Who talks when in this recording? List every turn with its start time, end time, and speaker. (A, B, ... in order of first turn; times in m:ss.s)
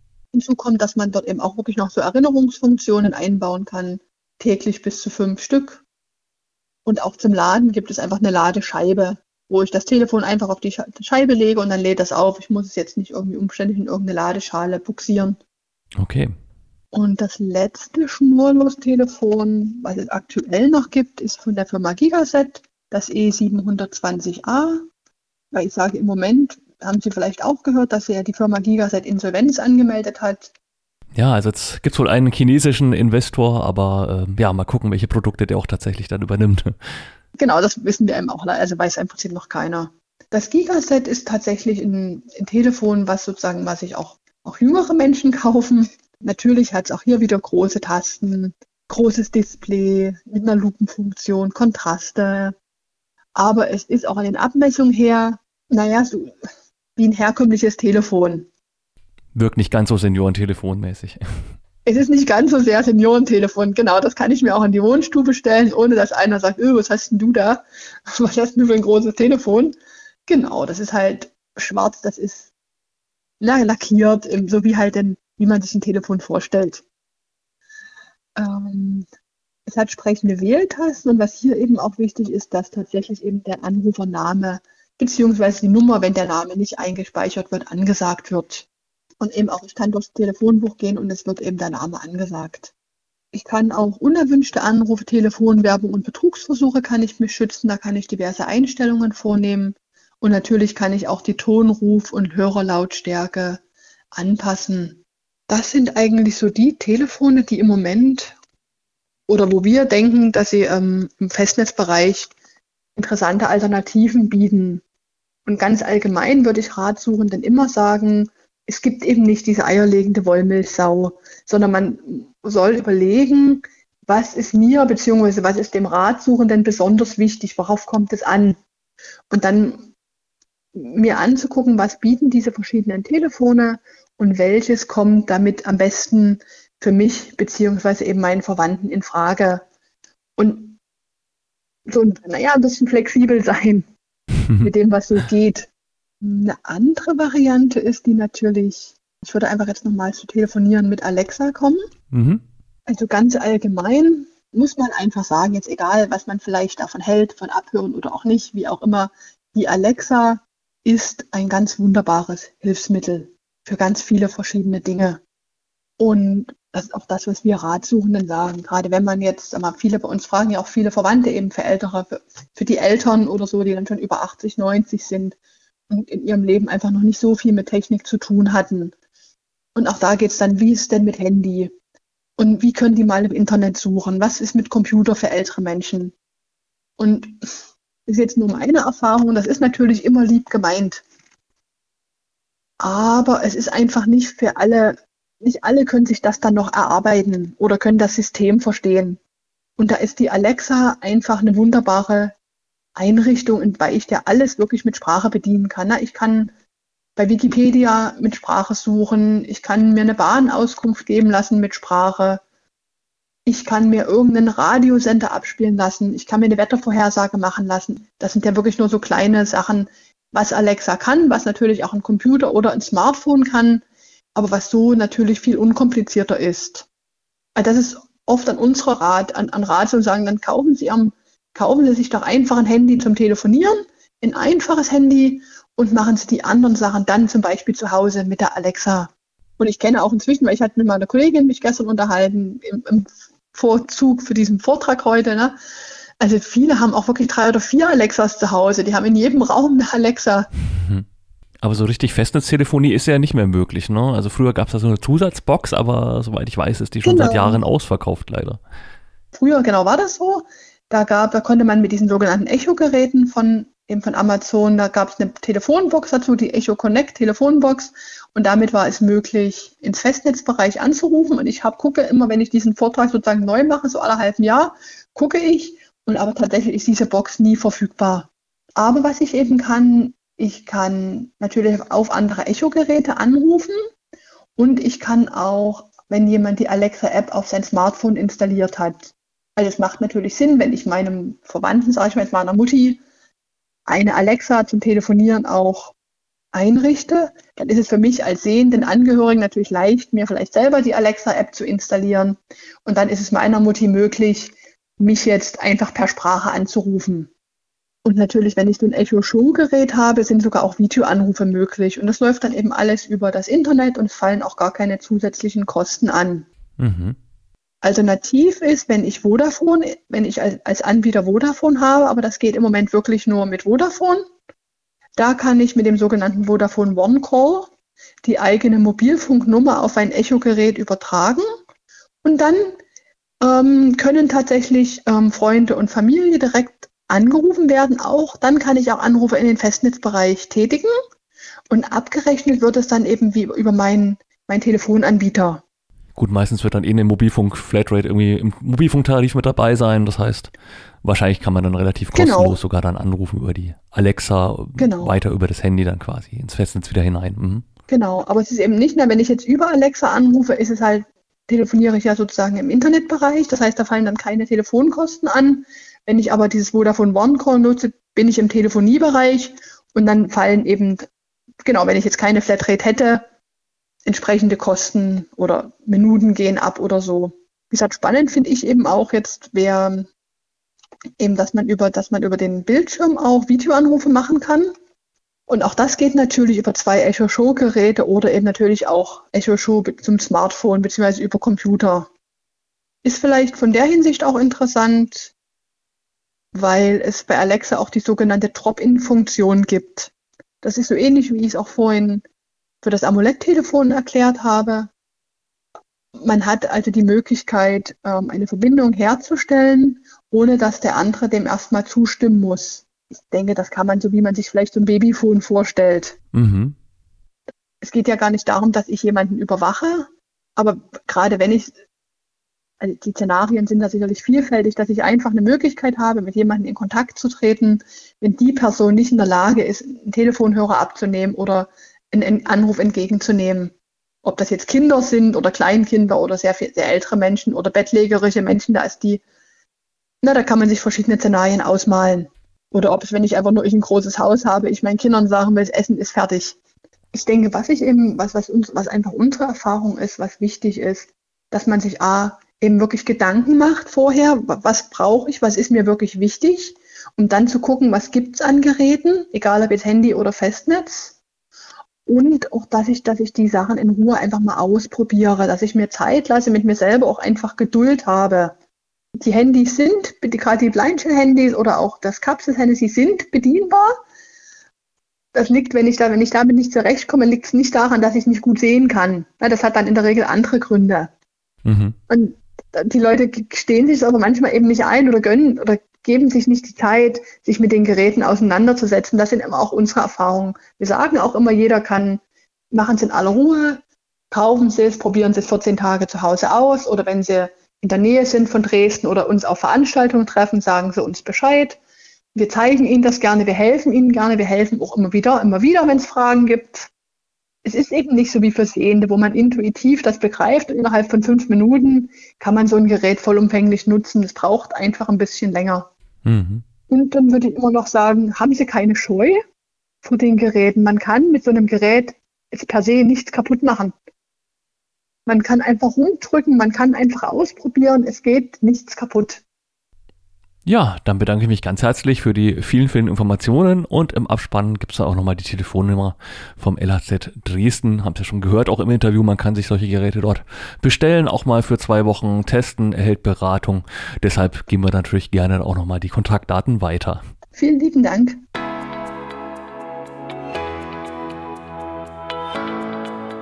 0:00.3-0:05.8 A
0:06.8-0:15.4 A
0:16.0-0:16.3 B
0:16.9-0:24.8 A
0:25.5-0:30.5 A
0:31.1-0:37.0 B
0:37.4-0:52.5 A
0:53.4-0:56.3 A
0:57.0-0:58.5 A
0:59.3-1:01.4 B
1:01.8-1:09.8 A
1:10.3-1:12.5 A
1:13.4-1:16.8 A
1:18.4-1:19.0 A
1:19.7-1:28.7 A
1:29.2-1:32.7 A
1:33.3-1:43.6 A
1:44.1-1:48.3 A
1:49.3-1:52.3 A
1:53.0-1:54.8 A
1:55.4-2:08.6 A
2:09.3-2:09.9 A
2:10.7-2:19.6 A
2:20.4-2:20.8 A
2:21.9-2:23.9 A
2:24.4-2:24.7 B
2:24.6-2:25.7 A
2:26.2-2:31.8 A
2:32.1-2:32.4 B
2:32.9-2:45.2 A
2:46.0-2:55.4 A
2:55.9-2:58.9 A
2:59.7-3:01.7 A
3:02.4-3:06.1 A
3:07.0-3:07.3 A
3:08.1-3:11.0 A
3:12.8-3:19.2 A
3:19.8-3:22.3 A
3:23.0-3:26.5 A
3:27.2-3:32.4 A
3:33.4-3:43.8 A
3:44.3-3:46.8 A
3:47.6-4:05.6 A
4:06.2-4:10.5 A
4:10.7-4:11.0 B
4:11.6-4:18.6 B
4:17.0-4:17.6 A
4:19.3-4:43.8 A
4:44.6-4:53.0 A
4:53.9-4:55.9 A
4:56.5-5:07.3 A
5:08.0-5:16.4 A
5:16.8-5:17.2 B
5:17.8-5:24.3 A
5:25.2-5:27.7 A
5:28.2-5:31.5 A
5:32.2-5:32.8 A
5:33.4-5:41.0 A
5:41.7-5:45.6 A
5:46.2-5:50.5 B
5:51.0-5:57.6 B
5:52.1-5:52.6 A
5:54.8-5:55.1 A
5:57.9-6:11.1 A
6:11.6-6:13.2 A
6:14.0-6:20.1 A
6:21.2-6:24.7 A
6:25.5-6:32.1 A
6:33.0-6:35.3 A
6:36.5-6:40.1 A
6:40.6-6:42.2 A
6:42.8-6:44.9 A
6:46.2-6:56.2 A
6:56.3-6:56.7 B
6:57.8-7:01.7 A
7:02.8-7:19.2 A
7:20.2-7:26.6 A
7:27.1-7:41.2 A
7:42.0-7:48.5 A
7:49.2-7:54.0 A
7:55.3-8:01.1 A
8:01.6-8:02.0 B
8:02.1-8:21.8 A
8:22.3-8:26.9 A
8:27.6-8:35.9 A
8:36.2-8:36.6 B
8:36.9-8:39.4 A
8:40.0-8:43.9 A
8:45.2-8:49.4 A
8:50.6-9:07.2 B
9:07.6-9:08.4 A